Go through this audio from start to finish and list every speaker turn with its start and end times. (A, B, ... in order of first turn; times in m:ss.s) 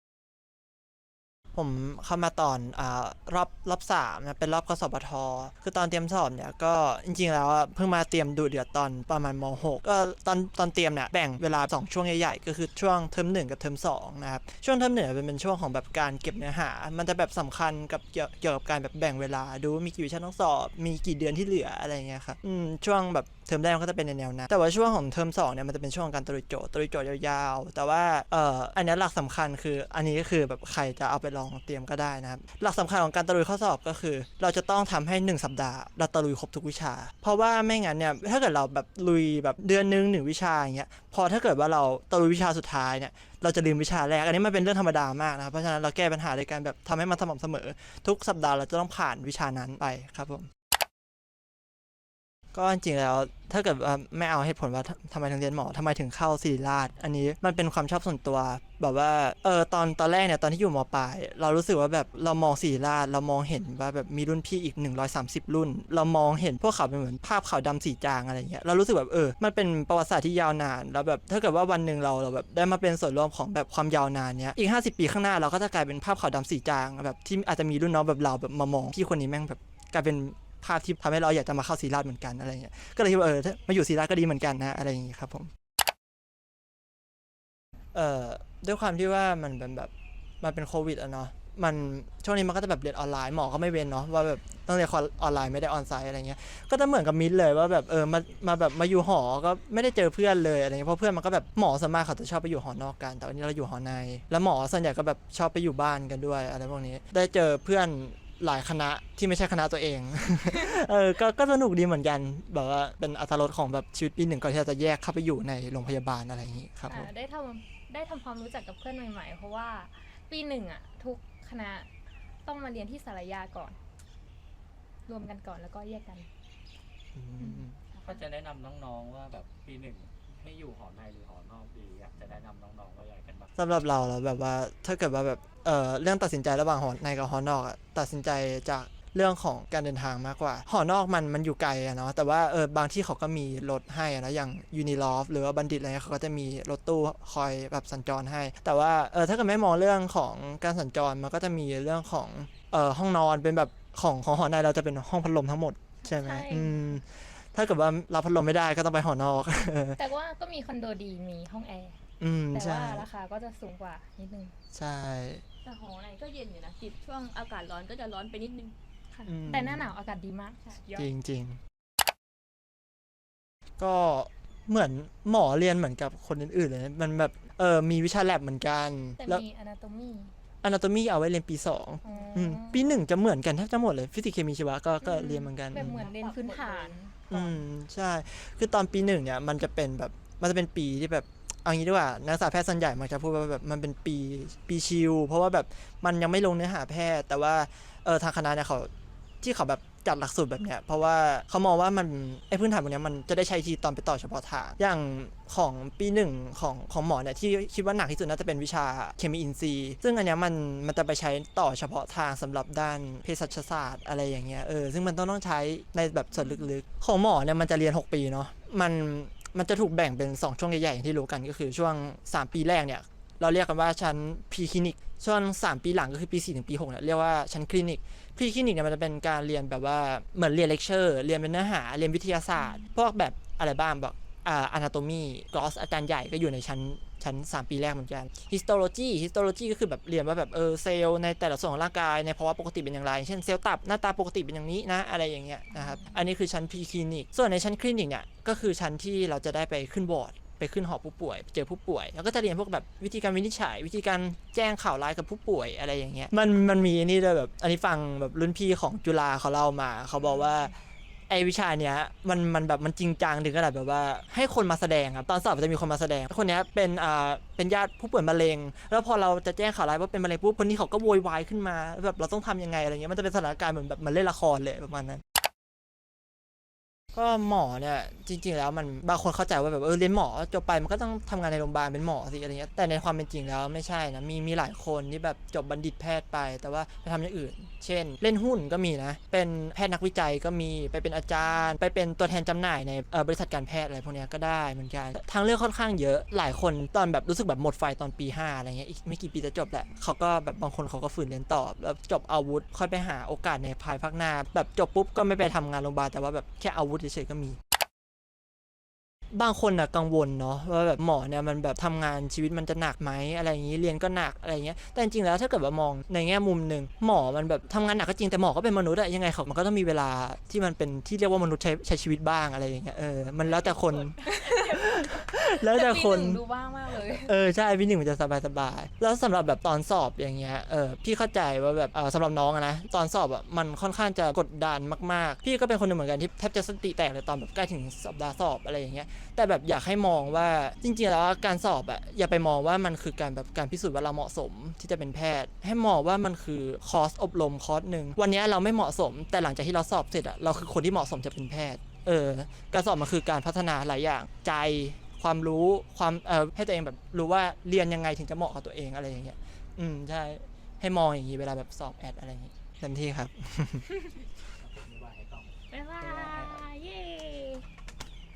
0:01.6-0:50.5 A
0:52.5-1:25.5 A
1:27.9-1:57.1 A
1:56.9-2:01.9 B
2:02.4-2:03.8 B
2:05.1-2:06.3 B
2:07.2-2:07.8 A
2:07.4-2:08.2 B
2:08.0-2:13.5 C
2:13.6-2:40.0 A
2:36.1-2:36.9 B
2:40.0-2:42.0 B
2:42.2-2:43.1 A
2:42.5-2:44.6 B
2:44.7-2:45.4 A
2:45.6-2:48.8 D
2:49.1-2:51.1 B
2:49.3-2:49.9 A
2:50.9-2:51.6 A
2:53.8-2:59.4 A
2:59.2-3:00.3 B
3:00.6-3:06.1 A
3:02.0-3:03.0 B
3:05.0-3:07.5 B
3:05.7-3:07.4 D
3:07.3-3:18.9 A
3:19.4-4:20.8 A
3:36.3-3:36.7 B
3:52.6-3:52.9 B
4:05.7-4:06.2 B
4:20.2-4:20.7 B
4:21.3-4:35.2 A
4:37.1-5:07.6 A
5:09.3-5:26.4 A
5:23.6-5:27.4 B
5:27.1-6:03.9 A
6:04.5-6:06.6 C
6:05.7-6:07.7 B